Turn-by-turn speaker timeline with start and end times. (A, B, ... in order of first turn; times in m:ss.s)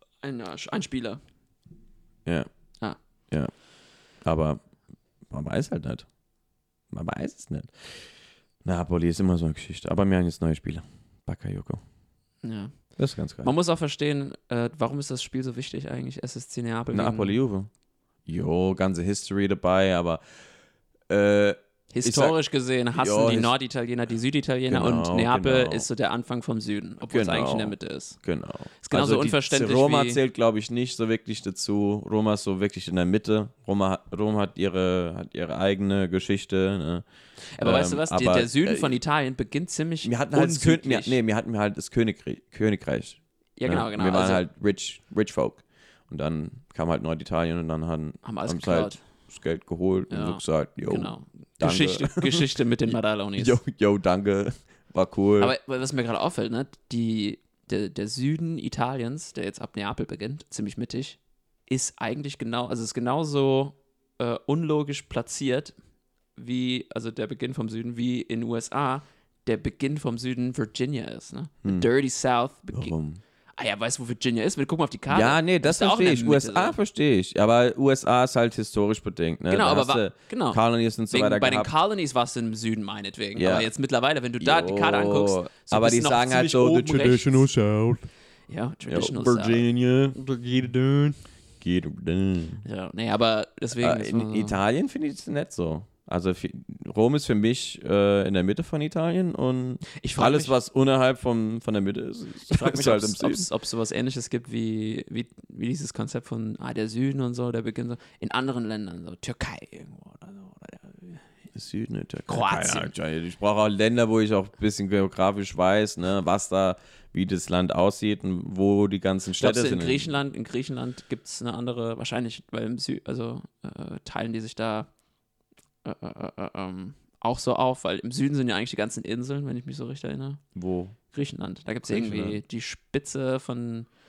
0:00.2-0:01.2 A
0:04.2-0:04.6 B
0:05.3-0:06.1 B
0:06.9-0:08.0 B
0:08.6-0:11.8 B
0:12.4-0:12.7 A
0:13.0-0:13.5 B
0:13.4-0:17.4 A
0:16.9-0:17.7 B
0:18.3-0:20.2 B
0:21.1-0:22.4 B
0:21.9-0:28.2 A
0:23.0-0:23.5 B
0:24.7-0:25.9 B
0:27.0-0:37.0 B
0:28.8-0:30.2 A
0:37.6-0:41.2 A
0:37.6-0:39.0 B
0:40.0-0:55.5 B
0:43.6-0:44.4 A
0:48.2-0:49.0 A
0:50.1-0:53.6 A
0:55.4-1:05.8 A
1:06.4-1:13.0 A
1:12.7-1:13.2 B
1:13.6-1:16.8 A
1:15.1-1:21.7 B
1:19.5-1:27.5 A
1:23.4-1:23.7 B
1:24.4-1:28.1 B
1:28.5-1:29.6 A
1:28.9-1:32.6 B
1:32.6-1:34.6 A
1:33.8-1:43.5 B
1:40.0-1:40.6 A
1:42.5-1:51.2 A
1:51.5-2:00.1 B
1:52.3-1:53.0 A
1:59.4-2:04.9 A
2:05.8-2:10.4 A
2:10.6-2:11.0 B
2:11.1-2:13.9 A
2:11.8-2:12.4 B